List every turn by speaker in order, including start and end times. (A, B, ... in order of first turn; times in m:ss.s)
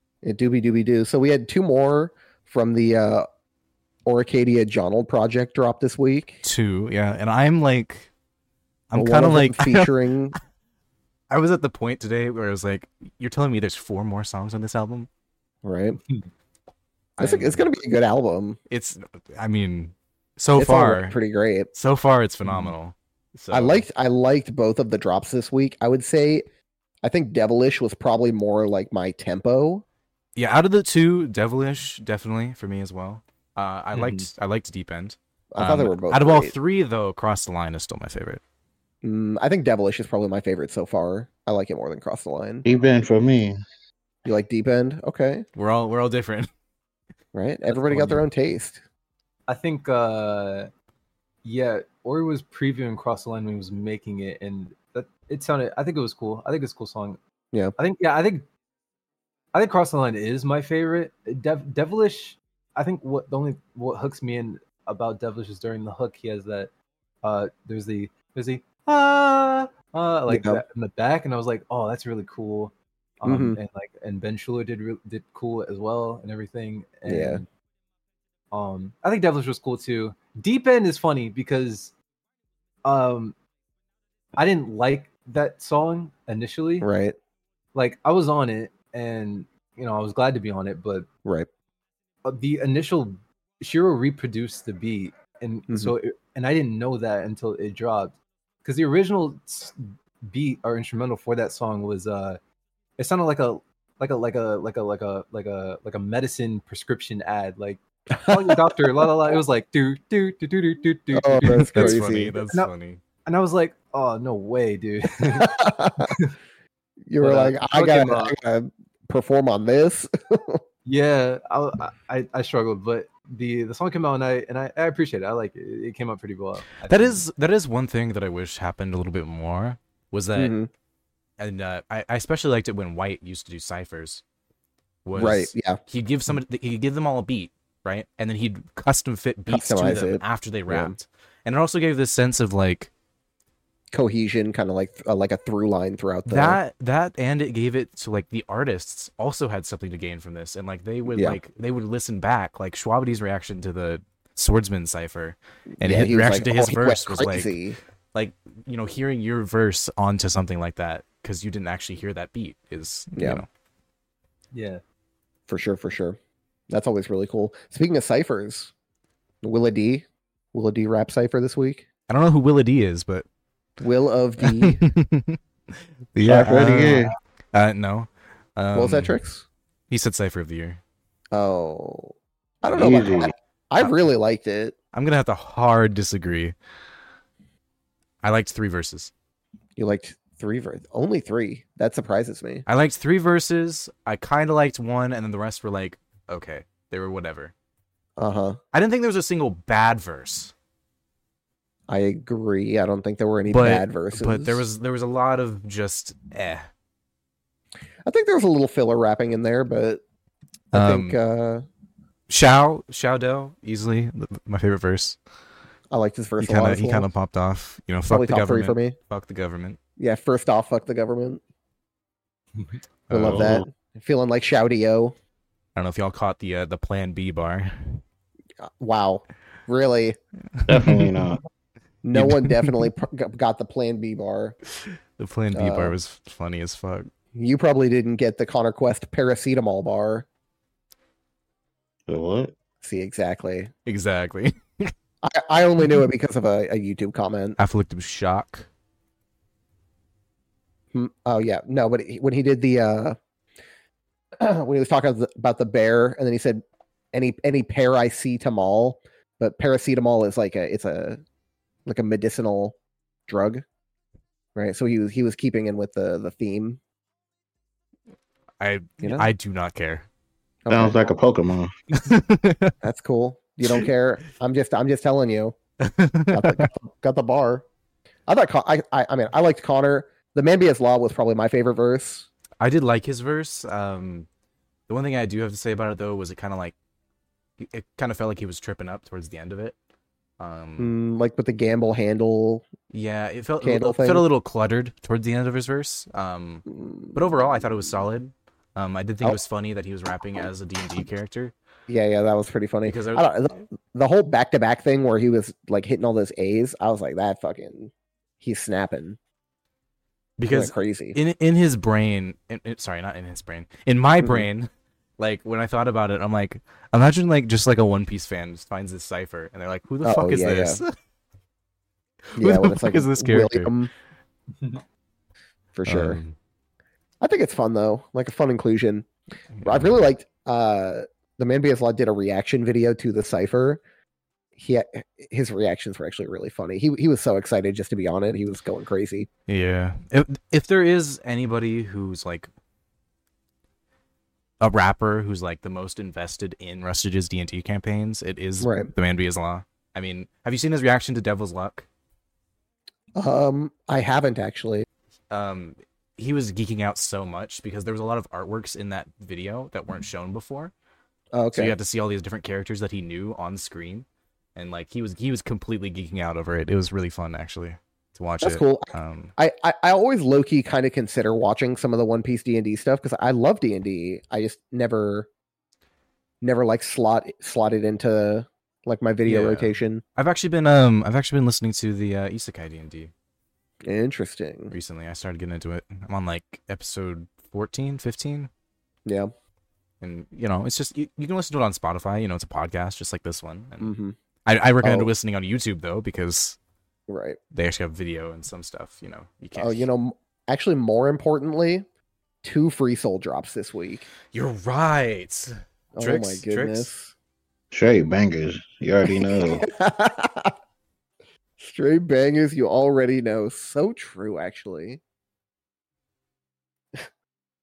0:00.2-0:03.3 A
0:04.1-0:06.4 A
0:06.4-0:08.1 B
0:08.9-0:09.9 B
0:09.0-0:10.4 A
0:11.3-0:15.1 B
0:15.6-0:16.0 A
0:17.2-0:17.6 B
0:17.2-0:18.6 A
0:18.7-0:21.2 B
0:20.6-0:21.7 A
0:21.7-0:23.9 B
0:22.4-0:22.7 C
0:23.5-0:26.4 A
0:27.0-0:29.8 A
0:30.4-0:38.4 B
0:33.9-0:34.3 C
0:35.5-0:36.6 A
0:39.0-0:42.7 A
0:42.6-0:43.6 D
0:44.2-0:45.4 A
0:45.6-0:46.5 B
0:47.3-0:48.8 A
0:47.8-0:48.2 B
0:49.5-0:50.7 C
0:51.4-0:57.2 C
0:57.8-0:58.5 C
0:59.5-1:06.7 C
1:07.2-1:17.5 C
1:10.3-1:10.6 A
1:13.2-1:13.6 A
1:17.0-1:17.4 A
1:18.5-1:22.0 C
1:22.8-1:23.4 C
1:24.4-1:26.9 C
1:26.8-1:27.2 A
1:27.8-1:31.1 C
1:32.2-1:42.4 C
1:43.0-1:52.7 C
1:48.2-1:49.1 A
1:51.1-1:52.4 A
1:51.4-1:53.0 B
1:53.2-1:56.3 C
1:55.3-1:56.2 A
1:57.1-2:00.6 A
1:57.2-1:58.4 C
2:00.9-2:07.2 C
2:06.9-2:10.6 B
2:10.4-2:10.7 A
2:11.4-2:14.2 B
2:15.0-2:22.9 B
2:15.1-2:15.8 A
2:19.5-2:21.0 A
2:23.9-2:26.6 A
2:26.3-2:37.6 B
2:31.1-2:31.4 A
2:35.8-2:37.8 A
2:38.1-2:43.5 B
2:43.2-2:43.4 A
2:44.5-2:44.8 C
2:45.5-2:46.2 A
2:46.7-2:48.7 A
2:49.4-2:51.9 A
2:52.1-2:53.3 B
2:53.8-2:54.8 A
2:54.4-2:59.2 B
2:56.3-2:57.1 D
2:56.3-2:56.9 A
2:58.7-2:59.5 A
2:59.9-3:00.8 B
3:01.3-3:04.8 A
3:02.7-3:03.3 D
3:04.9-3:06.6 B
3:08.2-3:09.1 B
3:09.8-3:12.7 A
3:12.7-3:17.5 B
3:18.2-3:18.6 A
3:18.7-3:20.5 B
3:21.9-3:24.6 A
3:23.5-3:26.7 B
3:28.0-3:30.0 A
3:30.7-3:31.2 B
3:30.7-3:31.7 A
3:32.3-3:35.2 B
3:35.9-3:37.1 A
3:36.4-3:39.8 B
3:38.1-3:39.0 A
3:40.0-3:41.4 A
3:43.1-3:43.6 B
3:43.1-3:45.2 A
3:43.2-3:43.6 D
3:45.8-3:48.0 B
3:48.6-3:50.2 A
3:50.6-3:51.1 B
3:50.7-3:51.4 D
3:52.0-3:54.6 A
3:52.1-3:52.8 B
3:54.8-3:57.1 B
3:55.5-3:55.9 A
3:57.3-4:00.3 A
4:02.1-4:02.5 D
4:02.8-4:03.7 A
4:03.9-4:04.9 B
4:05.2-4:07.6 A
4:07.6-4:08.7 B
4:10.9-4:13.2 A
4:14.4-4:21.2 A
4:21.9-4:22.8 A
4:23.3-4:23.6 A
4:24.6-4:26.8 A
4:28.6-4:30.1 B
4:29.0-4:29.3 A
4:30.7-4:31.1 A
4:30.7-4:31.7 D
4:31.9-4:32.7 B
4:32.8-4:35.6 A
4:35.8-4:36.7 B
4:36.3-4:37.6 A
4:38.3-4:42.3 A
4:42.6-4:44.3 B
4:44.9-4:46.8 B
4:47.6-4:49.8 B
4:50.4-4:50.9 B
4:50.8-4:52.6 A
4:52.9-5:01.6 B
4:53.6-4:54.2 A
4:56.7-4:57.7 A
5:01.9-5:09.2 A
5:02.9-5:03.6 B
5:10.4-5:20.9 B
5:10.5-5:11.2 A
5:20.0-5:20.8 A
5:22.3-5:23.7 B
5:22.4-5:23.9 A
5:24.6-5:24.8 C
5:25.8-5:26.2 A
5:25.9-5:26.4 B
5:27.2-5:29.1 A
5:29.6-5:30.0 B
5:29.6-5:33.8 A
5:34.6-5:39.3 A
5:39.5-5:42.5 B
5:44.6-5:51.9 B
5:48.6-5:48.9 A
5:53.2-5:54.8 A
5:55.3-6:00.7 B
6:01.3-6:01.7 A
6:01.5-6:09.3 B
6:08.4-6:15.3 A
6:16.4-6:20.0 A
6:19.2-6:23.1 B
6:23.8-6:24.7 A
6:24.7-6:28.5 B
6:29.1-6:29.3 A
6:30.0-6:33.9 B
6:33.8-6:34.2 A
6:34.5-6:36.6 B
6:34.8-6:35.1 A
6:37.1-6:37.4 A
6:37.5-6:39.9 B
6:39.6-6:41.9 A
6:42.4-6:44.1 A
6:44.3-6:46.9 B
6:46.0-6:47.1 A
6:47.7-6:49.7 D
6:49.1-6:50.5 A
6:51.6-6:55.0 A